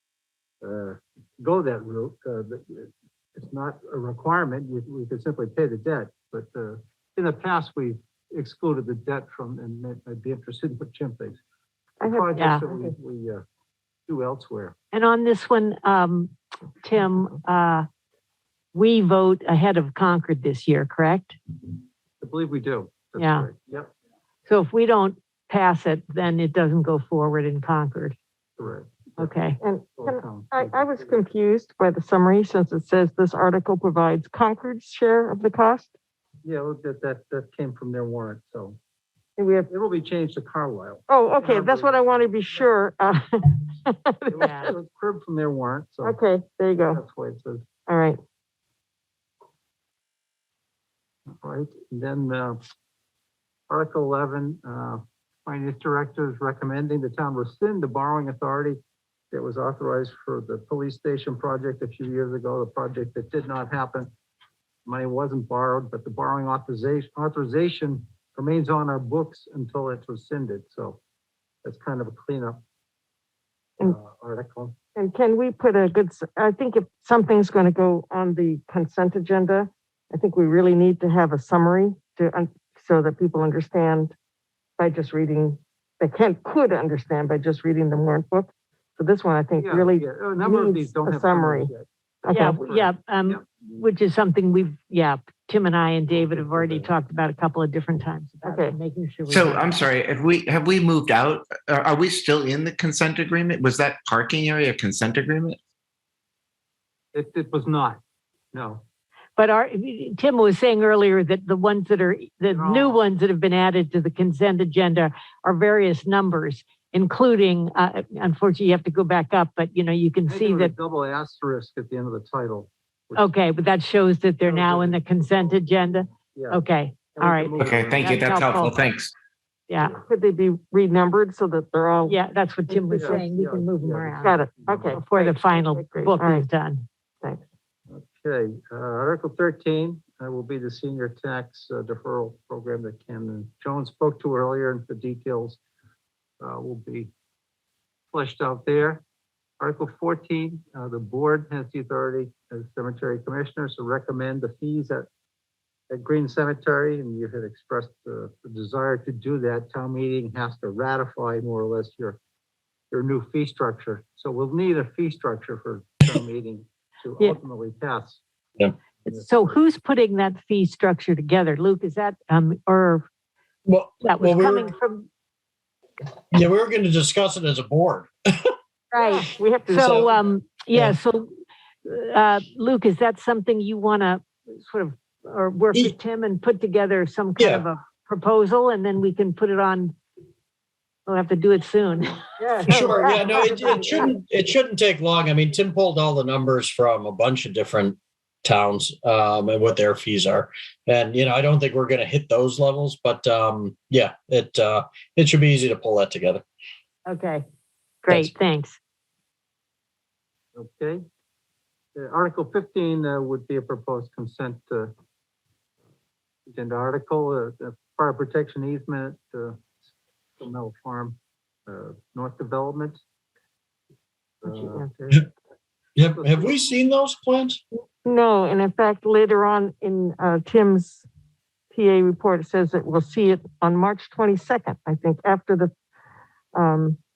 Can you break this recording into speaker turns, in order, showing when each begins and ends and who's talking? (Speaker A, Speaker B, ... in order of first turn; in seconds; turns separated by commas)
Speaker A: 0.6-11.4, Speaker B: 12.0-12.9, Speaker A: 12.0-13.4, Speaker C: 12.4-12.6, Speaker A: 14.1-14.8, Speaker C: 14.9-17.9, Speaker C: 18.7-21.4, Speaker A: 22.2-23.9, Speaker C: 23.2-23.5, Speaker C: 24.5-28.1, Speaker A: 28.6-29.3, Speaker C: 29.2-29.6, Speaker B: 29.6-35.9, Speaker A: 30.0-31.2, Speaker A: 36.4-38.8, Speaker B: 39.4-39.7, Speaker A: 39.7-42.7, Speaker B: 41.1-44.7, Speaker A: 44.3-46.2, Speaker C: 44.4-44.7, Speaker B: 46.0-47.0, Speaker A: 46.9-47.6, Speaker B: 47.9-48.2, Speaker A: 51.3-52.6, Speaker A: 53.7-58.8, Speaker A: 59.3-64.1, Speaker A: 64.9-71.0, Speaker A: 71.6-72.6, Speaker A: 73.8-74.8, Speaker B: 75.0-84.1, Speaker B: 84.8-91.7, Speaker A: 89.6-93.4, Speaker B: 92.2-92.6, Speaker C: 92.3-99.8, Speaker A: 96.1-96.9, Speaker B: 98.4-98.8, Speaker D: 99.3-105.6, Speaker A: 107.1-108.0, Speaker A: 108.5-108.8, Speaker C: 109.4-120.7, Speaker A: 112.5-113.0, Speaker A: 120.3-123.4, Speaker C: 123.2-128.8, Speaker A: 124.4-128.2, Speaker D: 127.6-129.1, Speaker C: 129.7-129.9, Speaker B: 129.8-133.2, Speaker C: 132.1-134.4, Speaker A: 132.9-135.0, Speaker B: 134.2-136.5, Speaker C: 134.9-136.8, Speaker A: 137.9-145.6, Speaker A: 146.4-147.1, Speaker A: 148.1-149.0, Speaker A: 149.6-155.1, Speaker A: 155.9-162.2, Speaker A: 162.9-168.2, Speaker C: 169.1-173.1, Speaker E: 173.7-174.7, Speaker C: 174.0-175.1, Speaker E: 176.3-178.5, Speaker B: 178.9-180.1, Speaker C: 178.9-181.3, Speaker C: 181.8-189.9, Speaker E: 187.4-187.6, Speaker C: 191.1-193.8, Speaker B: 192.4-194.0, Speaker E: 192.7-206.4, Speaker C: 207.1-207.4, Speaker C: 208.0-208.8, Speaker A: 210.5-211.0, Speaker A: 211.9-214.9, Speaker A: 216.5-219.6, Speaker A: 220.4-223.0, Speaker A: 224.4-224.9, Speaker B: 224.4-225.2, Speaker E: 225.9-227.6, Speaker A: 226.1-226.6, Speaker B: 228.0-231.1, Speaker B: 231.7-235.7, Speaker B: 236.5-237.0